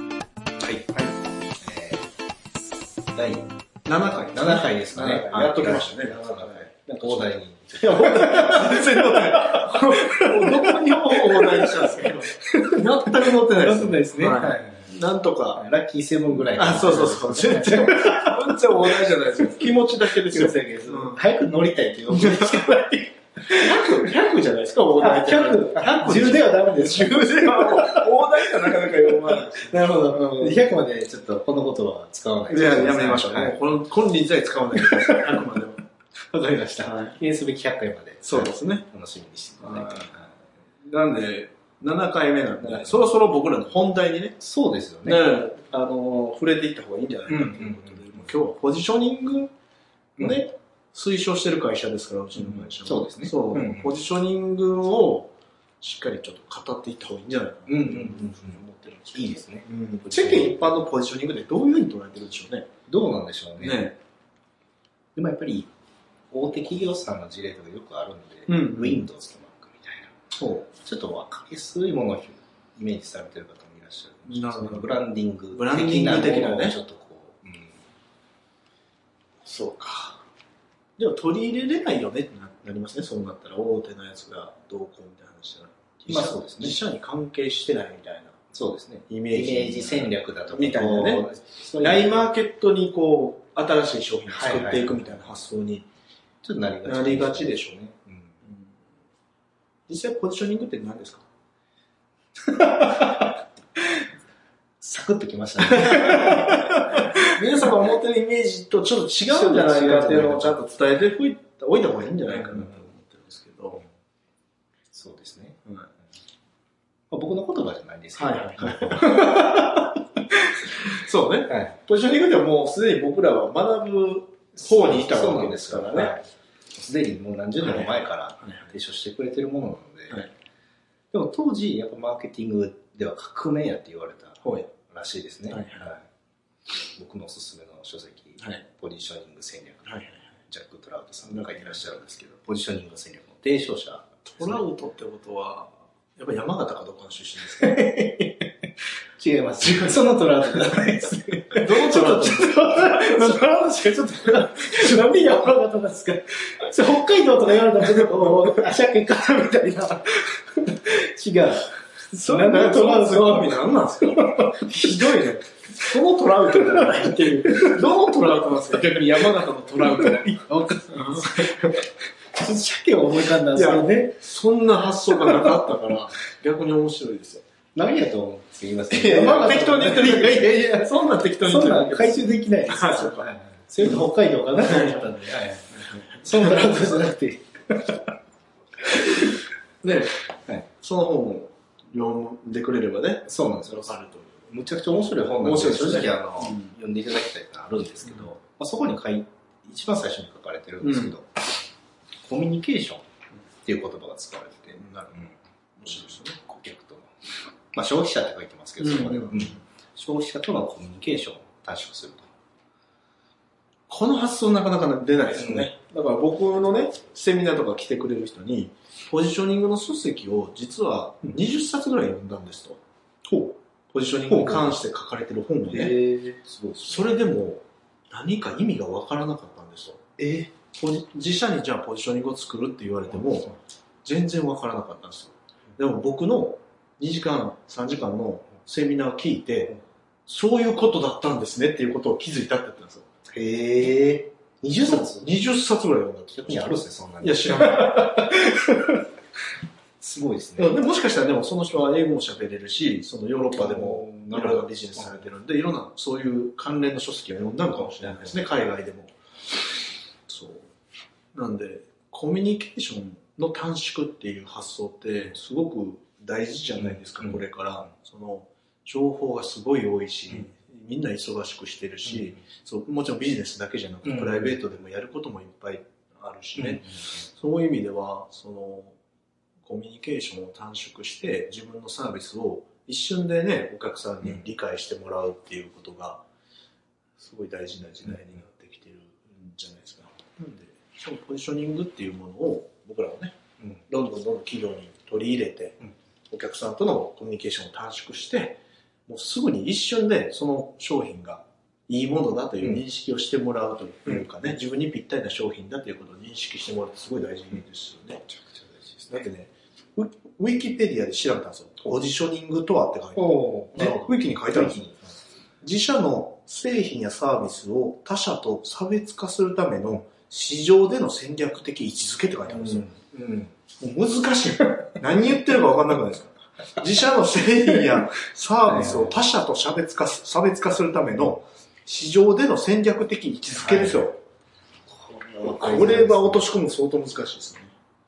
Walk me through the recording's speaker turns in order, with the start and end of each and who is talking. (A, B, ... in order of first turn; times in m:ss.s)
0:00.6-0:02.1 A
0:03.1-0:03.5 A
0:03.8-0:15.6 B
0:04.3-0:14.9 A
0:15.5-0:24.0 A
0:16.3-0:21.2 B
0:22.1-0:22.7 B
0:23.5-0:30.6 B
0:24.9-0:33.6 A
0:32.5-0:35.8 B
0:34.7-0:35.6 A
0:36.2-0:40.3 A
0:36.8-0:37.2 B
0:38.2-0:38.8 B
0:39.6-0:40.1 B
0:40.8-0:44.4 B
0:42.6-0:43.1 A
0:44.4-0:45.2 A
0:45.0-0:49.5 B
0:47.3-0:48.1 A
0:50.2-0:50.4 A
0:50.2-1:02.7 B
0:52.4-0:53.9 A
0:57.7-0:58.6 A
0:59.1-1:00.8 A
1:02.9-1:03.9 A
1:03.6-1:04.0 B
1:05.1-1:05.7 A
1:06.3-1:10.1 A
1:08.5-1:09.1 B
1:10.3-1:10.7 B
1:10.8-1:17.8 A
1:14.3-1:15.0 B
1:15.5-1:16.8 B
1:19.4-1:20.2 B
1:21.0-1:28.4 B
1:26.1-1:26.8 A
1:28.5-1:32.3 A
1:29.1-1:31.2 B
1:31.8-1:35.9 B
1:34.3-1:35.2 A
1:36.4-1:38.3 A
1:36.8-1:37.7 B
1:38.4-1:38.7 B
1:39.9-1:41.2 B
1:42.5-1:43.2 A
1:44.8-1:47.2 A
1:45.6-1:53.8 B
1:49.2-1:50.6 A
1:52.3-1:52.8 A
1:54.9-1:55.6 A
1:57.1-1:59.9 A
1:58.2-1:59.8 B
2:00.6-2:06.1 B
2:01.5-2:01.8 A
2:04.6-2:10.3 A
2:07.6-2:08.7 B
2:11.1-2:16.0 A
2:14.4-2:14.7 B
2:15.5-2:15.9 B
2:17.0-2:24.6 A
2:19.9-2:20.2 B
2:21.2-2:21.8 B
2:24.3-2:27.8 B
2:27.6-2:44.9 A
2:31.6-2:33.4 B
2:34.7-2:35.1 B
2:42.2-2:51.8 B
2:46.4-2:47.8 A
2:49.2-2:54.2 A
2:53.5-2:57.4 B
2:55.1-2:55.5 A
2:57.7-3:08.1 A
2:58.9-3:03.2 B
3:03.8-3:05.2 B
3:05.8-3:06.9 B
3:08.8-3:09.4 A
3:09.8-3:10.2 B
3:10.8-3:14.4 B
3:13.3-3:21.6 A
3:15.4-3:16.7 B
3:20.8-3:21.1 B
3:22.2-3:23.0 A
3:23.6-3:25.3 A
3:24.8-3:26.4 B
3:25.9-3:32.3 A
3:28.8-3:29.6 B
3:33.9-3:45.9 B
3:35.4-3:35.7 A
3:44.3-3:44.8 A
3:45.7-3:47.3 A
3:46.8-3:53.5 B
3:50.2-3:50.5 A
3:53.1-3:53.5 A
3:54.0-3:59.7 B
4:00.3-4:03.0 B
4:03.3-4:05.3 A
4:04.8-4:08.4 B
4:06.3-4:09.0 A
4:10.0-4:10.8 A
4:10.6-4:19.1 B
4:13.5-4:15.3 A
4:17.8-4:18.4 A
4:20.3-4:20.6 B
4:21.3-4:39.0 B
4:26.8-4:27.4 A
4:34.0-4:34.5 A
4:36.6-4:37.1 A
4:39.6-4:46.2 B
4:47.2-4:53.3 B
4:53.9-5:08.2 B
5:08.3-5:09.2 A
5:09.1-5:14.8 B
5:13.2-5:15.2 A
5:15.6-5:22.9 B
5:22.5-5:23.5 A
5:23.8-5:34.2 B
5:28.7-5:29.2 A
5:33.5-5:34.1 A
5:34.9-5:36.5 A
5:35.4-5:37.7 B